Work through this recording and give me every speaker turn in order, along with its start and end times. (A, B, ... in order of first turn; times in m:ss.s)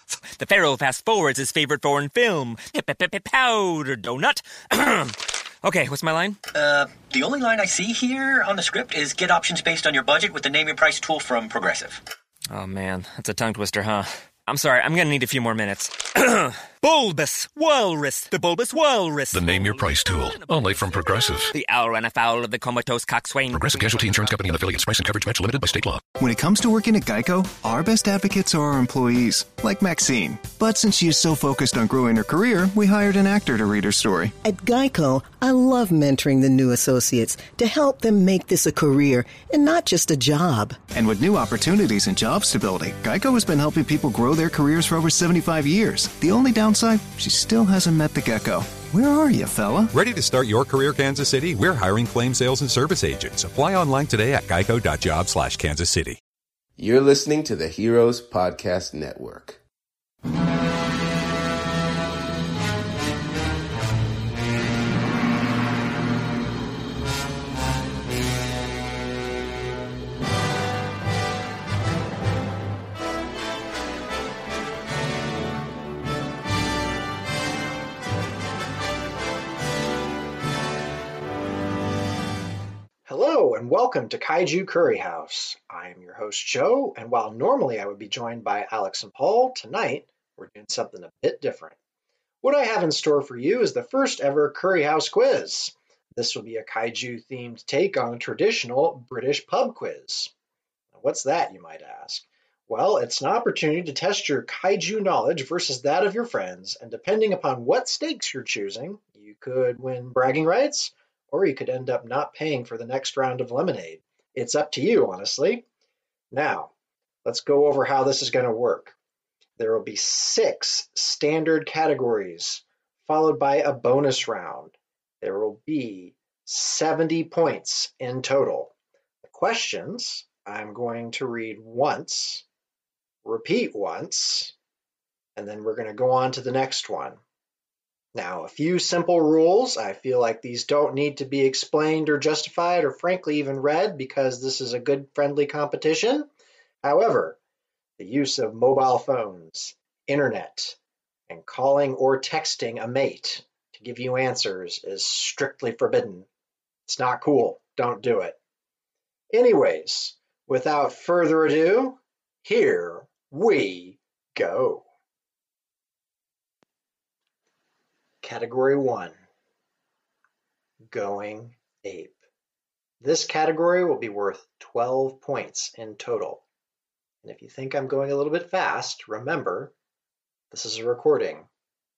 0:00.4-0:06.4 A
0:06.5-0:12.0 B
0:12.5-0:20.9 A
0:19.3-0:21.5 C
0:21.5-0:23.6 A
0:23.5-0:26.0 C
0:26.2-0:34.4 D
0:34.4-0:40.8 E
0:40.8-0:49.9 D
0:49.9-0:56.2 F
0:56.8-0:59.6 G
1:23.0-1:31.8 H
1:32.4-1:40.3 H
1:40.9-1:55.6 H
1:56.3-1:56.7 H
1:57.2-1:59.0 H
1:59.6-2:12.4 H
2:13.2-2:14.5 H
2:15.4-2:17.2 H
2:18.1-2:26.3 H
2:26.8-2:27.4 H
2:28.0-2:36.3 H
2:36.8-2:38.4 H
2:39.3-2:44.8 H
2:48.2-2:49.2 H
2:50.8-2:52.2 H
2:53.0-2:56.4 H
2:57.2-2:59.7 H
3:00.5-3:01.5 H